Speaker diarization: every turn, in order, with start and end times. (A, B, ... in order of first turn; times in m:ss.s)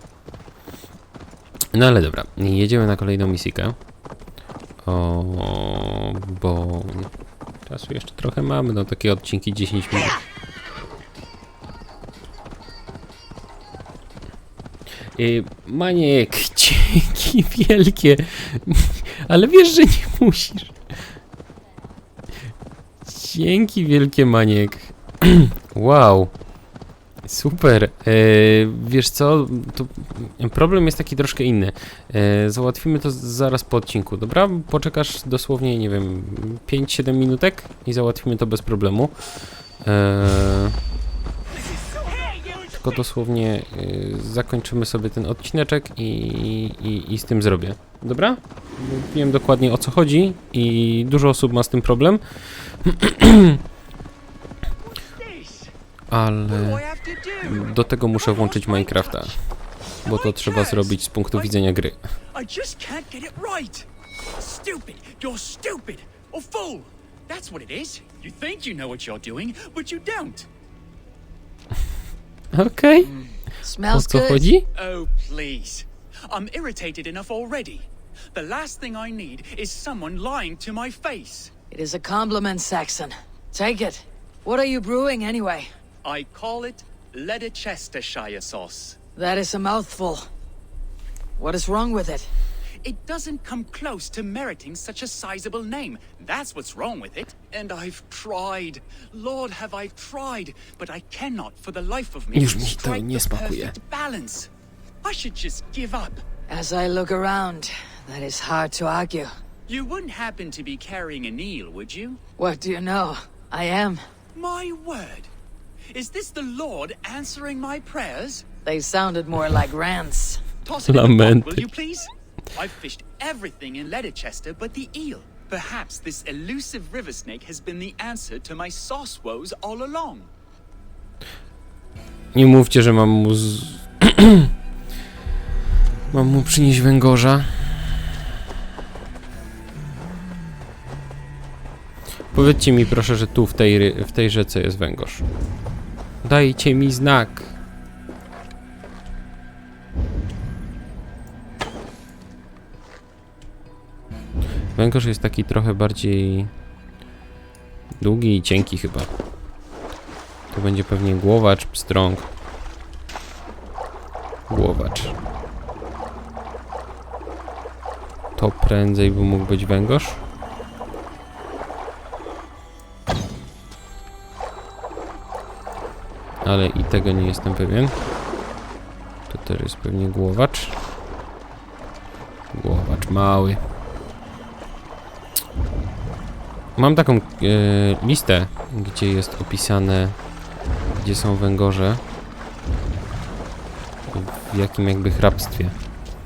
0:01.7-0:03.8 A
0:04.8-0:07.1 A
0:07.7-0:10.2 A
0:15.2-0:20.8 A
0:23.0-0:26.3 A
0:27.2-0:39.2 A
0:39.8-0:40.8 A
0:42.7-0:53.6 A
0:55.0-0:55.7 B
0:56.1-0:56.8 A
0:56.6-0:57.5 B
0:57.4-0:59.4 A
0:58.2-0:59.4 B
1:00.0-1:02.0 A
1:00.1-1:01.5 B
1:02.3-1:03.9 B
1:04.4-1:10.5 B
1:12.5-1:13.1 A
1:13.1-1:14.5 C
1:13.9-1:14.7 A
1:14.8-1:21.5 B
1:21.7-1:25.7 C
1:26.0-1:29.0 B
1:29.2-1:30.3 C
1:31.4-1:32.3 C
1:32.8-1:44.5 B
1:42.3-1:43.8 A
1:45.0-1:46.2 B
1:46.5-1:49.3 C
1:49.7-1:50.0 B
1:52.4-1:54.0 C
1:54.4-1:55.3 B
1:55.9-1:58.4 B
1:58.6-2:00.4 C
2:00.7-2:01.9 B
2:00.8-2:01.7 A
2:02.6-2:03.2 B
2:03.9-2:05.7 B
2:06.3-2:10.3 B
2:12.3-2:14.5 A
2:16.1-2:18.0 A
2:22.3-2:25.3 A
2:26.2-2:27.5 A
2:34.8-2:36.5 A
2:38.0-2:39.1 A
2:40.5-2:42.3 A
2:44.5-2:45.2 A
2:48.4-2:50.2 A
2:56.4-2:58.0 A
2:59.3-3:00.8 A
3:02.5-3:03.6 A
3:06.8-3:10.2 A
3:10.9-3:12.0 A
3:14.1-3:15.8 A